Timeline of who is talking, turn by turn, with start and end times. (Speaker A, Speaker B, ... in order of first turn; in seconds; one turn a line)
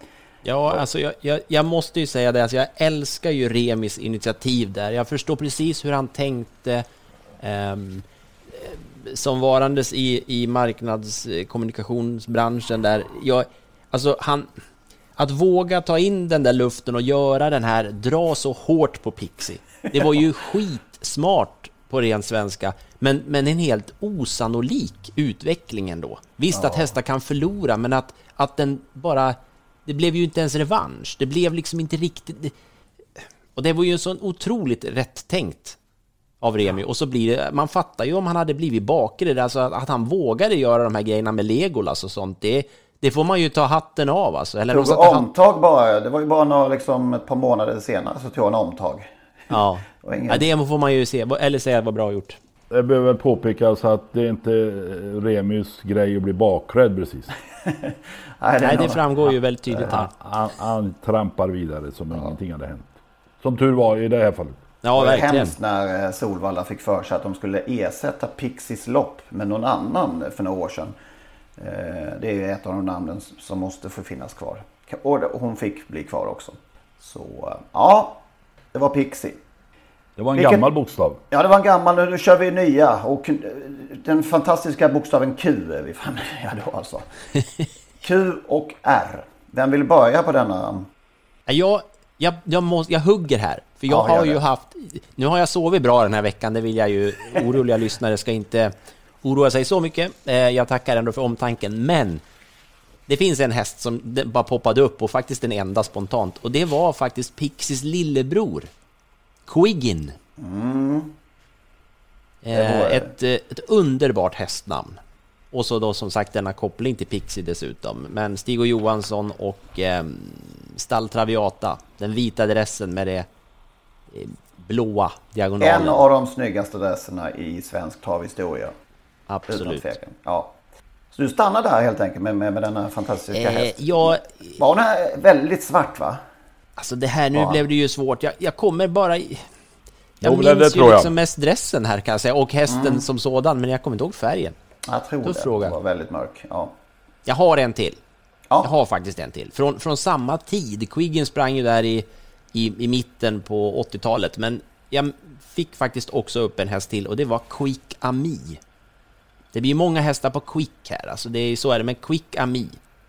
Speaker A: 0.4-6.8
Speaker A: 7.4-14.5
Speaker A: 15.2-32.5
Speaker B: 26.5-26.9
Speaker A: 33.5-35.8
Speaker A: 36.4-45.3
Speaker B: 44.7-49.1
Speaker A: 49.5-52.4
Speaker B: 50.0-50.4
Speaker C: 52.7-57.3
Speaker B: 57.6-59.3
Speaker A: 58.6-60.1
Speaker C: 59.8-64.6
Speaker A: 64.8-65.5
Speaker B: 65.0-70.9
Speaker B: 71.6-78.2
Speaker B: 78.7-79.4
Speaker C: 80.2-81.2
Speaker B: 80.3-80.6
Speaker B: 81.3-87.0
Speaker B: 88.0-90.9
Speaker A: 91.5-102.2
Speaker B: 93.9-94.4
Speaker A: 103.1-108.7
Speaker A: 109.5-110.2
Speaker B: 110.4-111.1
Speaker A: 112.4-115.0
Speaker B: 112.5-113.1
Speaker A: 115.5-123.2
Speaker A: 124.1-126.0
Speaker B: 125.6-128.7
Speaker A: 129.3-129.9
Speaker B: 129.5-130.5
Speaker B: 131.1-136.2
Speaker A: 133.3-134.6
Speaker A: 136.8-139.4
Speaker B: 137.3-137.6
Speaker C: 140.2-141.1
Speaker A: 140.2-144.6
Speaker B: 142.7-143.0
Speaker B: 144.8-146.7
Speaker A: 145.2-145.8
Speaker A: 147.2-148.0
Speaker A: 148.6-158.6
Speaker A: 159.5-162.8